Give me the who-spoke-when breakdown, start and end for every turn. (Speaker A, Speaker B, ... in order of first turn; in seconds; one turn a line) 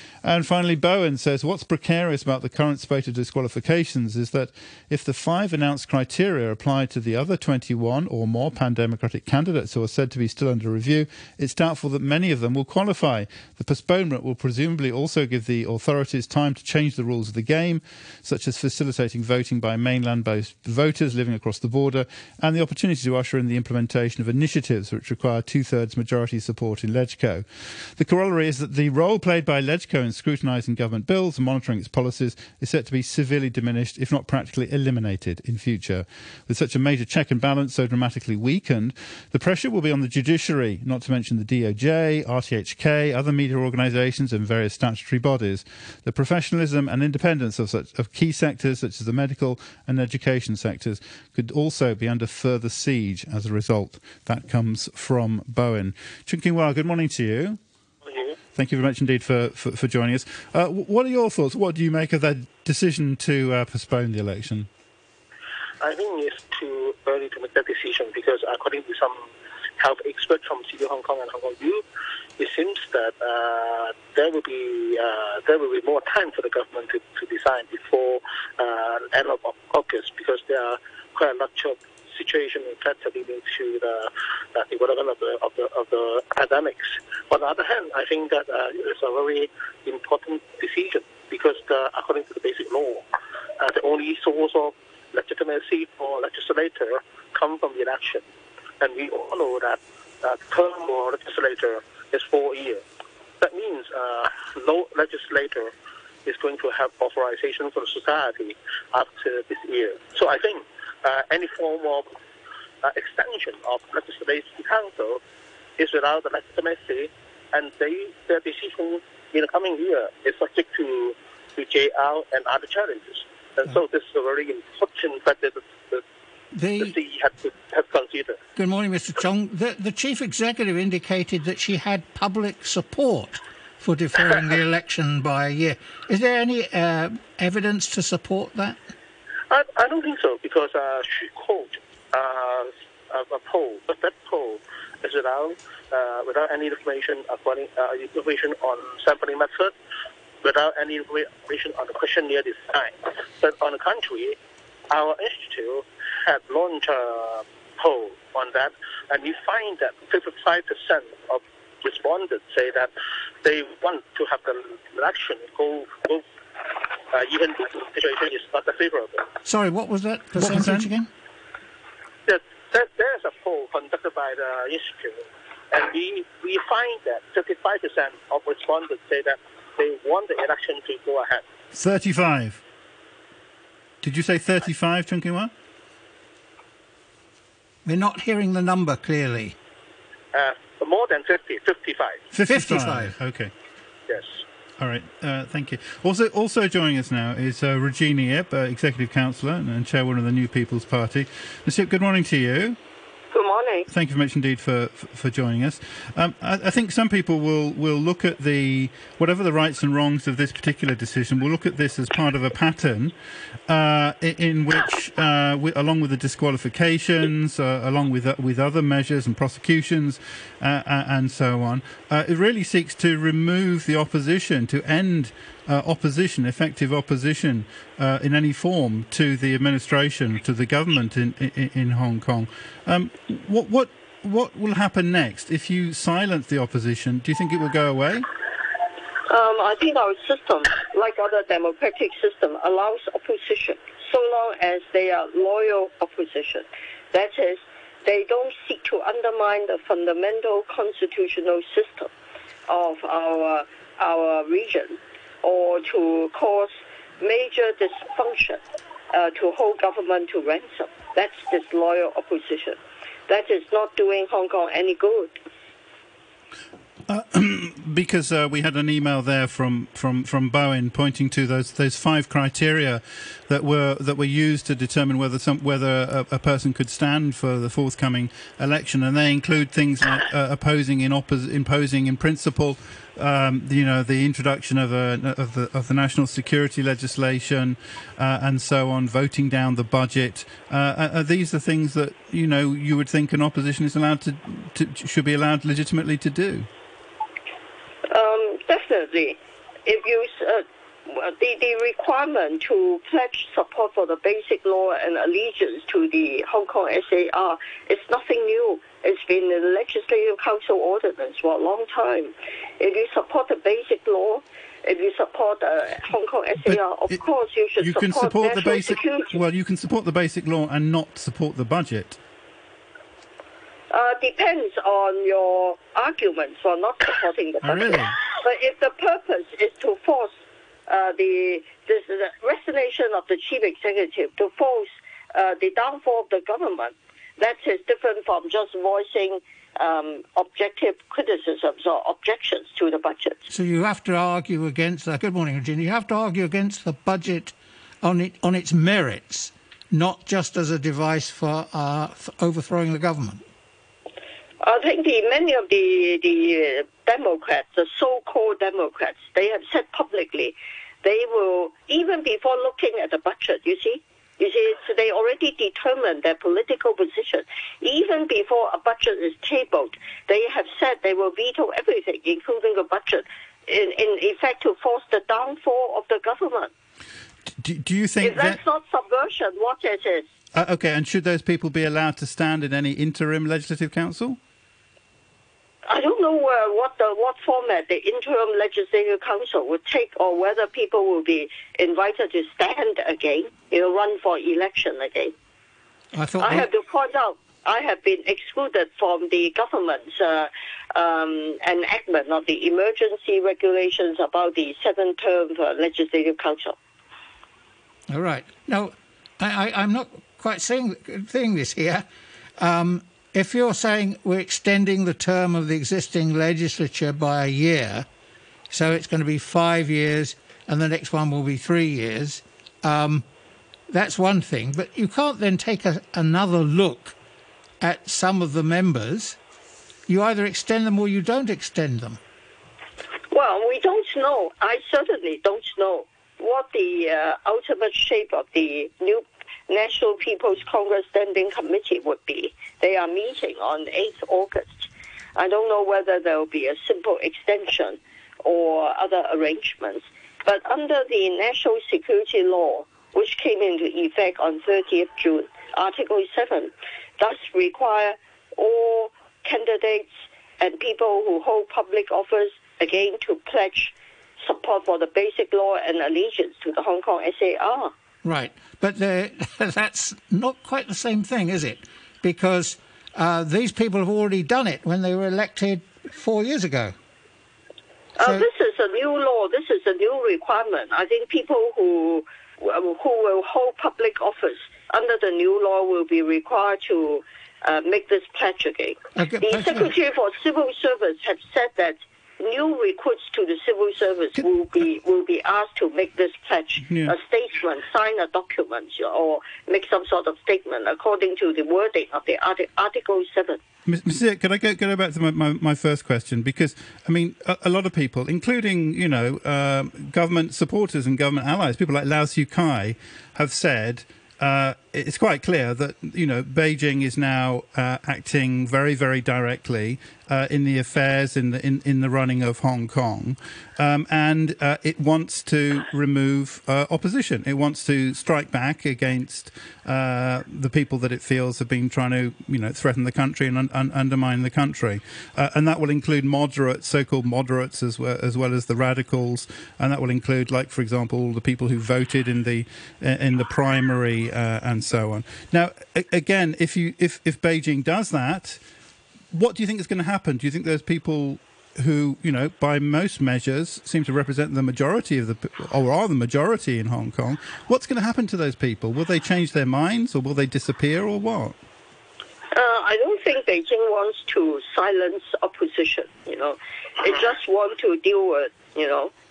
Speaker A: 0.2-57.6
Speaker B: 58.0-58.4
Speaker A: 58.5-64.7
Speaker B: 65.8-69.2
Speaker B: 69.8-71.8
Speaker B: 72.4-93.1
Speaker B: 93.6-98.2
Speaker B: 98.8-102.8
Speaker B: 103.4-105.7
Speaker B: 106.3-112.1
Speaker B: 112.8-115.2
Speaker B: 115.8-126.0
Speaker C: 126.5-127.0
Speaker B: 126.8-128.4
Speaker C: 128.6-138.8
Speaker B: 139.5-149.7
Speaker B: 150.4-154.4
Speaker B: 154.9-162.9
Speaker B: 163.4-166.2
Speaker B: 167.1-169.3
Speaker C: 169.4-171.1
Speaker A: 170.4-170.9
Speaker B: 172.3-181.4
Speaker A: 181.7-182.6
Speaker A: 184.0-185.5
Speaker C: 187.8-189.6
Speaker B: 190.3-192.2
Speaker A: 192.3-193.5
Speaker C: 192.5-193.2
Speaker B: 194.1-194.4
Speaker A: 194.8-202.8
Speaker D: 203.3-203.9
Speaker A: 203.9-213.2
Speaker A: 213.7-238.3
Speaker D: 239.3-252.1
Speaker D: 252.7-265.4
Speaker A: 267.1-296.7
Speaker D: 298.1-319.4
Speaker A: 316.7-317.2
Speaker A: 317.8-322.2
Speaker D: 323.9-330.4
Speaker A: 327.6-328.2
Speaker D: 330.9-343.5
Speaker C: 343.5-353.4
Speaker D: 354.6-376.7
Speaker A: 377.6-378.6
Speaker D: 378.2-380.3
Speaker A: 380.6-384.4
Speaker D: 385.9-395.3
Speaker C: 396.1-396.7
Speaker D: 396.4-406.8
Speaker C: 408.1-412.1
Speaker C: 412.6-418.1
Speaker C: 418.7-423.3
Speaker C: 423.9-427.2
Speaker C: 427.8-429.4
Speaker C: 430.1-432.2
Speaker D: 433.3-460.1
Speaker D: 460.6-467.9
Speaker C: 468.2-476.9
Speaker D: 478.2-503.6
Speaker C: 478.2-478.5
Speaker C: 489.2-489.9
Speaker A: 496.9-497.1
Speaker A: 503.9-548.6
Speaker A: 549.3-561.6
Speaker D: 562.5-569.1